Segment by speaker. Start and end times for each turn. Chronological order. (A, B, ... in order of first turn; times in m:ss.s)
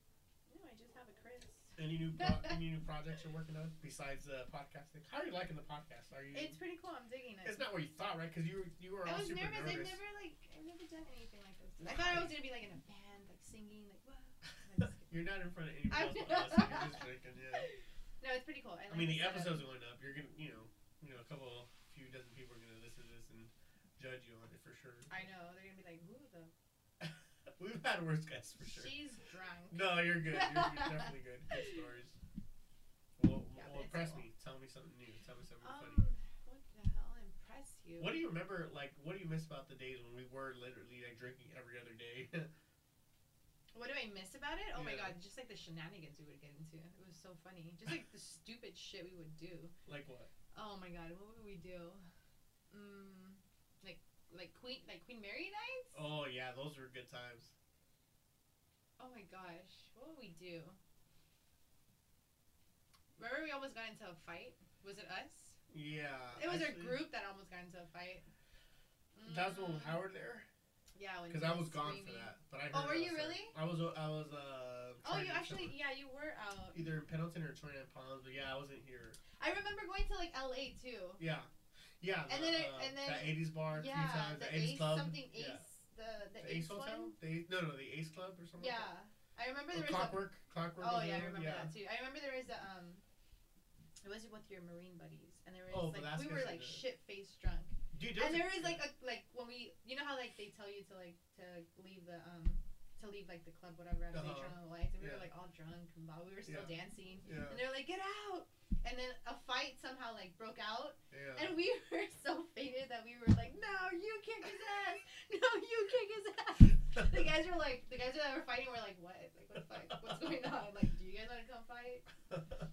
0:00.5-0:02.6 A
0:01.8-0:06.6 B
0:06.3-0:07.6 A
0:07.4-0:10.0 B
0:09.0-0:15.2 A
0:11.8-0:12.5 B
0:15.0-0:17.7 B
0:15.9-0:17.0 A
0:17.5-0:19.7 A
0:18.9-0:25.2 B
0:25.1-0:26.5 A
0:27.0-0:28.9 B
0:28.6-0:31.1 A
0:29.7-0:32.2 B
0:33.2-0:36.0 B
0:33.5-0:34.3 A
0:35.6-0:38.2 A
0:38.0-0:42.5 B
0:43.7-0:49.7 A
0:44.7-0:45.1 B
0:49.9-0:50.3 B
0:50.5-0:52.0 A
0:52.7-0:56.0 A
0:55.9-0:57.5 B
0:59.0-1:00.8 A
1:03.2-1:05.6 A
1:05.7-1:07.1 B
1:06.3-1:08.2 A
1:09.2-1:10.0 A
1:09.2-1:10.5 B
1:10.9-1:13.5 A
1:11.3-1:15.8 B
1:15.0-1:16.9 A
1:16.7-1:19.2 B
1:19.4-1:21.2 A
1:21.2-1:25.6 B
1:22.3-1:27.1 A
1:26.4-1:28.9 B
1:28.6-1:33.0 A
1:29.7-1:31.7 B
1:34.0-2:02.0 A
1:35.7-1:36.8 B
1:37.9-1:38.9 B
1:44.1-1:45.3 B
1:46.4-1:47.6 B
1:51.1-1:51.6 B